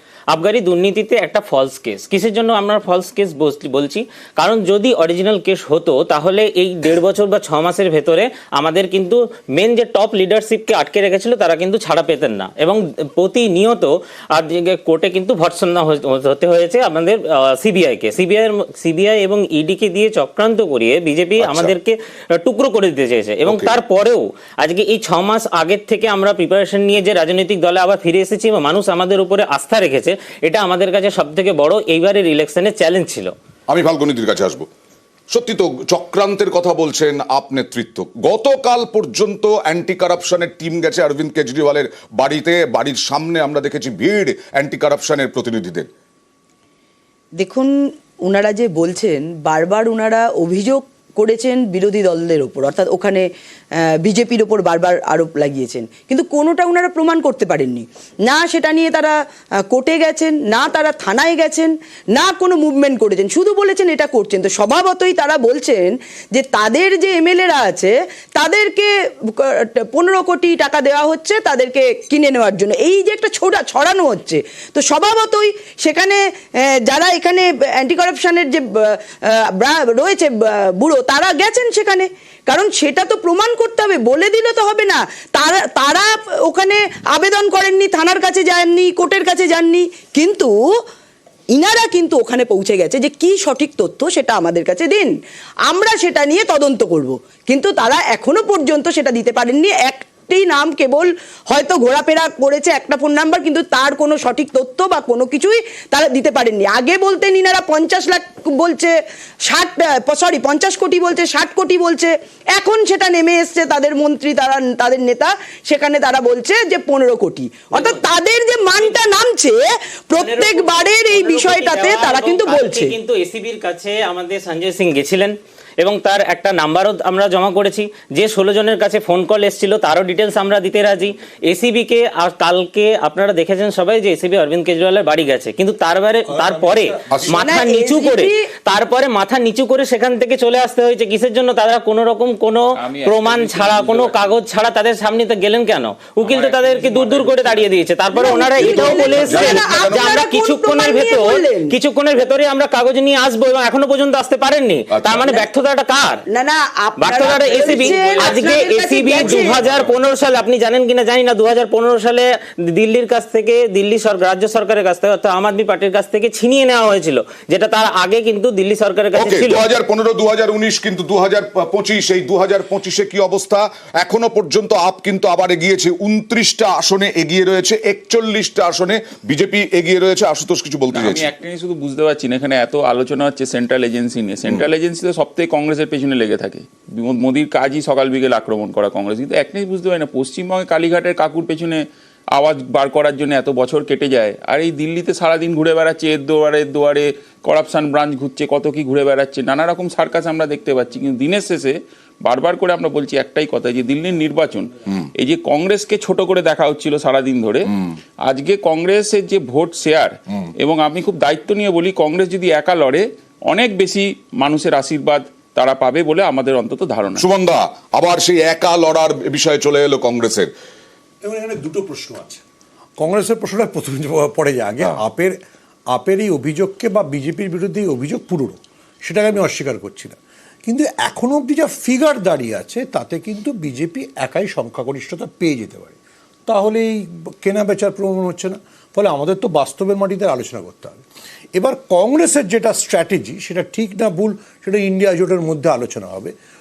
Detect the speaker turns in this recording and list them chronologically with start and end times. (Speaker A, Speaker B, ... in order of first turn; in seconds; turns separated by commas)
Speaker A: 0.3-33.3, Speaker B: 21.4-21.8, Speaker B: 23.5-23.8, Speaker B: 33.7-34.7, Speaker B: 35.3-45.9, Speaker C: 47.4-47.7, Speaker C: 48.3-53.3, Speaker C: 54.0-59.1, Speaker C: 59.7-90.5, Speaker C: 91.5-95.1, Speaker C: 95.7-108.9, Speaker C: 109.5-122.9, Speaker A: 117.7-118.1, Speaker A: 118.7-119.0, Speaker A: 120.2-156.2, Speaker D: 136.3-137.3, Speaker B: 137.1-137.5, Speaker C: 137.3-138.4, Speaker E: 142.8-144.4, Speaker E: 146.2-147.8, Speaker C: 148.1-151.8, Speaker E: 148.6-149.2, Speaker B: 149.1-150.2, Speaker B: 154.9-155.3, Speaker C: 156.3-159.6, Speaker A: 157.0-169.7, Speaker E: 157.5-158.3, Speaker E: 159.4-159.8, Speaker B: 169.2-181.3, Speaker E: 180.9-207.7, Speaker E: 208.2-217.2, Speaker B: 217.2-220.5, Speaker D: 221.2-222.4, Speaker D: 223.0-225.3, Speaker D: 225.9-241.0, Speaker D: 241.6-246.3